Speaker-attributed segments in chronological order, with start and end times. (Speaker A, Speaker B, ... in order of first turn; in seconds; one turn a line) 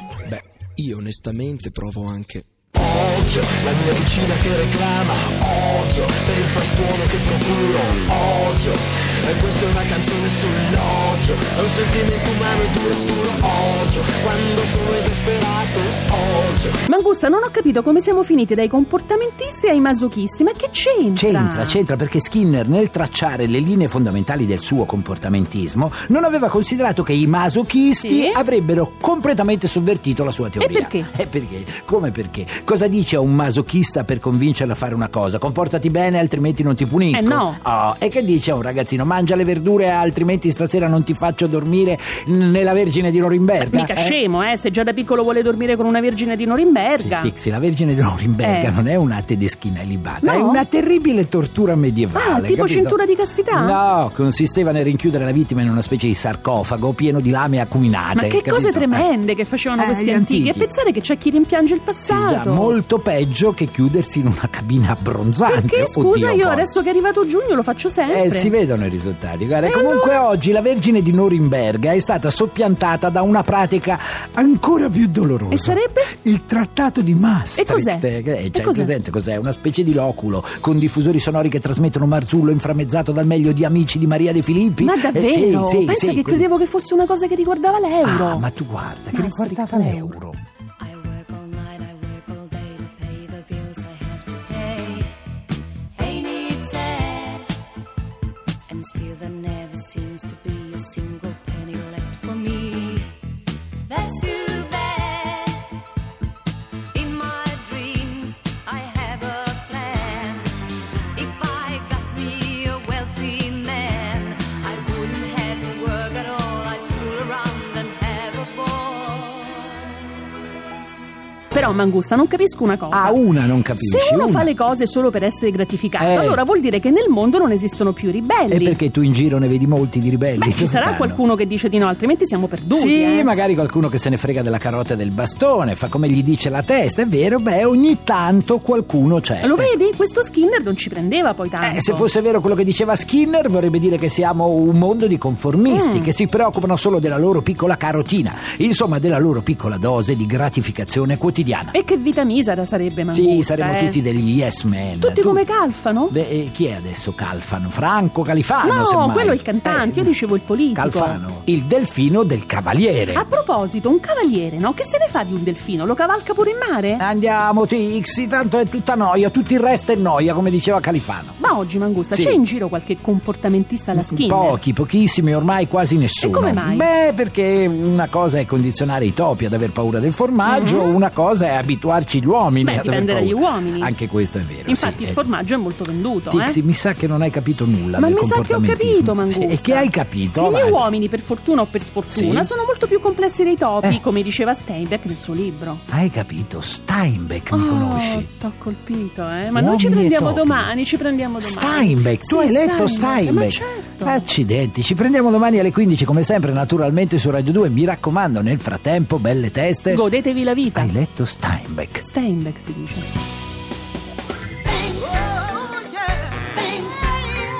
Speaker A: 0.2-16.8
Speaker B: 16.9-21.8
Speaker C: 21.1-44.2
Speaker B: 28.0-28.4
Speaker B: 30.6-31.1
Speaker B: 37.1-37.6
Speaker B: 43.6-47.3
Speaker C: 47.0-53.0
Speaker B: 48.4-48.7
Speaker B: 50.2-50.6
Speaker B: 52.1-53.8
Speaker C: 53.5-59.1
Speaker B: 58.1-62.8
Speaker C: 59.8-60.7
Speaker C: 62.1-66.7
Speaker B: 65.5-68.5
Speaker C: 68.1-86.5
Speaker B: 69.6-70.2
Speaker B: 75.5-76.1
Speaker B: 77.6-78.9
Speaker B: 84.8-88.4
Speaker C: 88.0-90.4
Speaker B: 89.1-90.1
Speaker D: 90.8-95.1
Speaker D: 96.0-97.5
Speaker D: 98.7-103.2
Speaker D: 103.9-105.6
Speaker D: 106.9-110.5
Speaker D: 111.1-119.9
Speaker B: 121.5-128.8
Speaker C: 122.9-124.5
Speaker C: 126.0-126.4
Speaker C: 128.5-131.2
Speaker B: 130.4-133.3
Speaker C: 132.7-139.7
Speaker B: 139.4-142.1
Speaker C: 141.6-151.7
Speaker B: 145.7-146.1
Speaker B: 151.7-154.0
Speaker C: 153.1-155.4
Speaker B: 155.0-156.1
Speaker C: 156.1-160.1
Speaker B: 158.6-161.2
Speaker C: 160.7-163.2
Speaker B: 163.2-167.0
Speaker C: 167.0-171.4
Speaker B: 171.4-174.6
Speaker C: 172.1-172.4
Speaker C: 173.9-185.2
Speaker B: 176.2-176.9
Speaker B: 180.4-180.9
Speaker B: 182.6-183.9
Speaker B: 184.7-186.6
Speaker C: 186.3-190.8
Speaker B: 188.0-195.8
Speaker C: 192.1-192.5
Speaker C: 195.9-198.3
Speaker B: 197.5-204.3
Speaker C: 199.5-200.7
Speaker C: 201.4-210.0
Speaker B: 209.9-210.9
Speaker C: 210.7-212.0
Speaker B: 212.0-213.1